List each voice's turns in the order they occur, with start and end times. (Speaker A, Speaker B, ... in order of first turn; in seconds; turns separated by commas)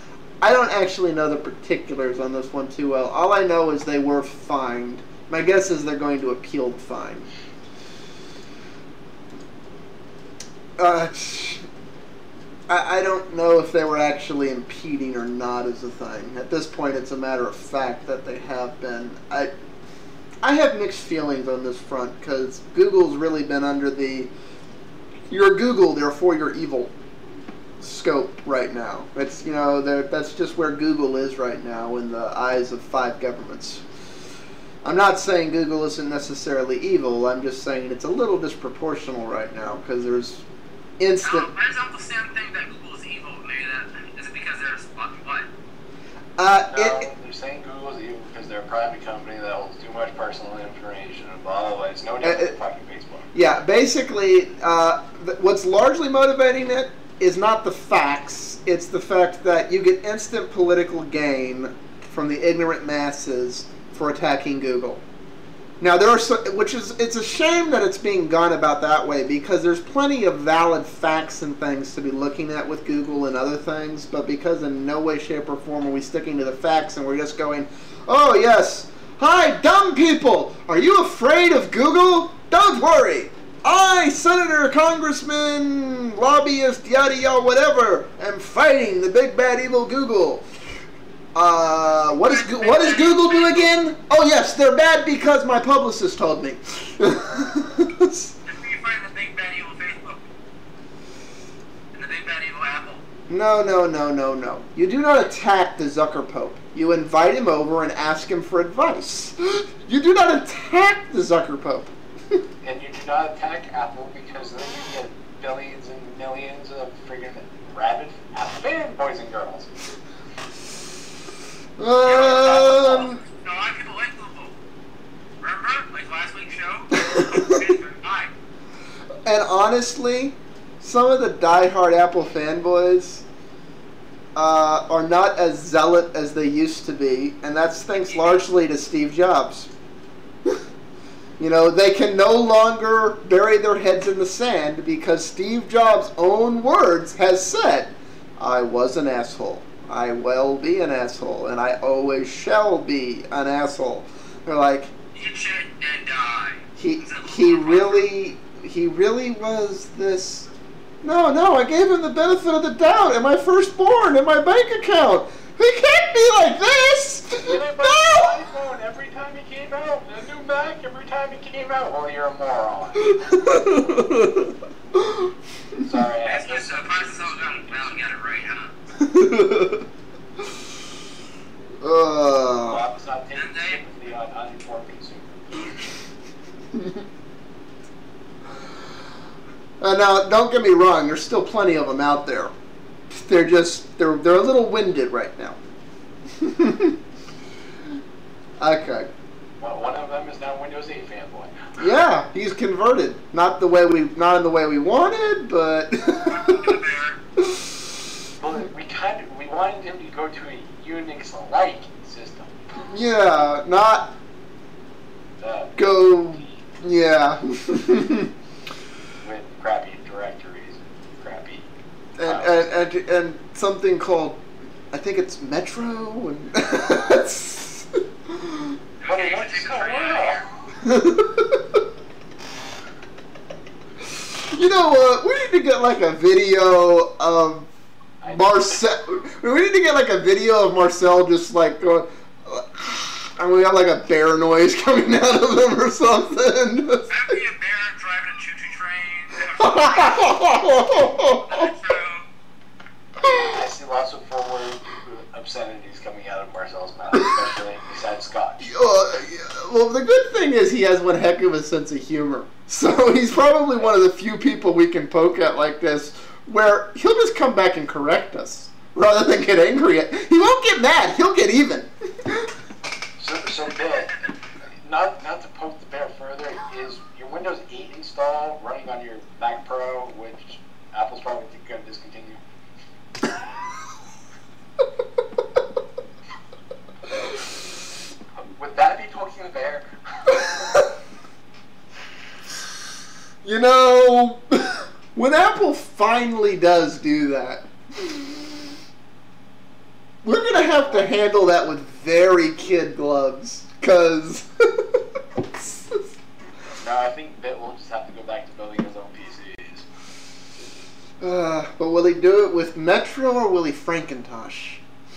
Speaker A: 0.4-7.3, Speaker A: 10.8-11.7, Speaker A: 12.7-19.5, Speaker A: 20.4-24.3, Speaker A: 25.3-26.9, Speaker A: 27.8-33.8, Speaker A: 34.8-40.5, Speaker A: 41.0-41.5, Speaker B: 41.2-45.5, Speaker A: 46.4-47.1, Speaker C: 46.7-53.3, Speaker A: 52.2-52.5, Speaker A: 53.3-65.0, Speaker A: 65.8-90.5, Speaker A: 91.3-98.3, Speaker B: 92.1-93.7, Speaker B: 98.5-100.2, Speaker B: 101.9-103.0, Speaker A: 103.3-111.9, Speaker C: 112.6-119.7, Speaker A: 121.8-123.2, Speaker B: 122.0-124.5, Speaker B: 125.4-128.3, Speaker A: 126.9-127.6, Speaker A: 129.3-133.2, Speaker A: 134.4-139.7, Speaker B: 138.1-138.4, Speaker A: 141.4-154.9, Speaker B: 155.2-158.1, Speaker A: 156.8-160.5, Speaker A: 161.0-168.3, Speaker C: 167.4-174.0, Speaker A: 173.0-175.8, Speaker C: 175.8-178.2, Speaker B: 176.2-178.7, Speaker A: 179.0-179.8, Speaker A: 181.8-182.8, Speaker C: 182.6-185.9, Speaker B: 183.3-183.8, Speaker A: 186.8-187.0, Speaker A: 189.8-192.5, Speaker A: 193.2-195.6, Speaker A: 196.4-197.0, Speaker A: 198.6-199.1, Speaker C: 199.6-201.9, Speaker A: 201.8-206.7, Speaker B: 206.3-207.2, Speaker C: 208.4-213.0, Speaker A: 212.9-214.1, Speaker C: 215.4-216.6, Speaker A: 215.8-218.3, Speaker C: 219.2-221.7, Speaker A: 222.2-228.8, Speaker C: 222.2-222.8, Speaker B: 229.0-230.4, Speaker C: 229.1-230.5, Speaker A: 230.8-231.8, Speaker A: 234.2-237.7, Speaker C: 238.2-238.9, Speaker A: 238.3-247.1, Speaker B: 247.1-250.5, Speaker A: 249.6-251.7, Speaker B: 251.3-252.3, Speaker C: 253.3-258.7, Speaker A: 258.6-272.5, Speaker C: 273.2-274.2, Speaker C: 274.8-282.4, Speaker C: 288.4-290.6, Speaker A: 290.3-290.9, Speaker A: 293.4-298.4, Speaker A: 300.2-304.9, Speaker C: 300.7-301.2, Speaker A: 305.5-306.0, Speaker C: 306.8-309.9, Speaker A: 311.2-314.8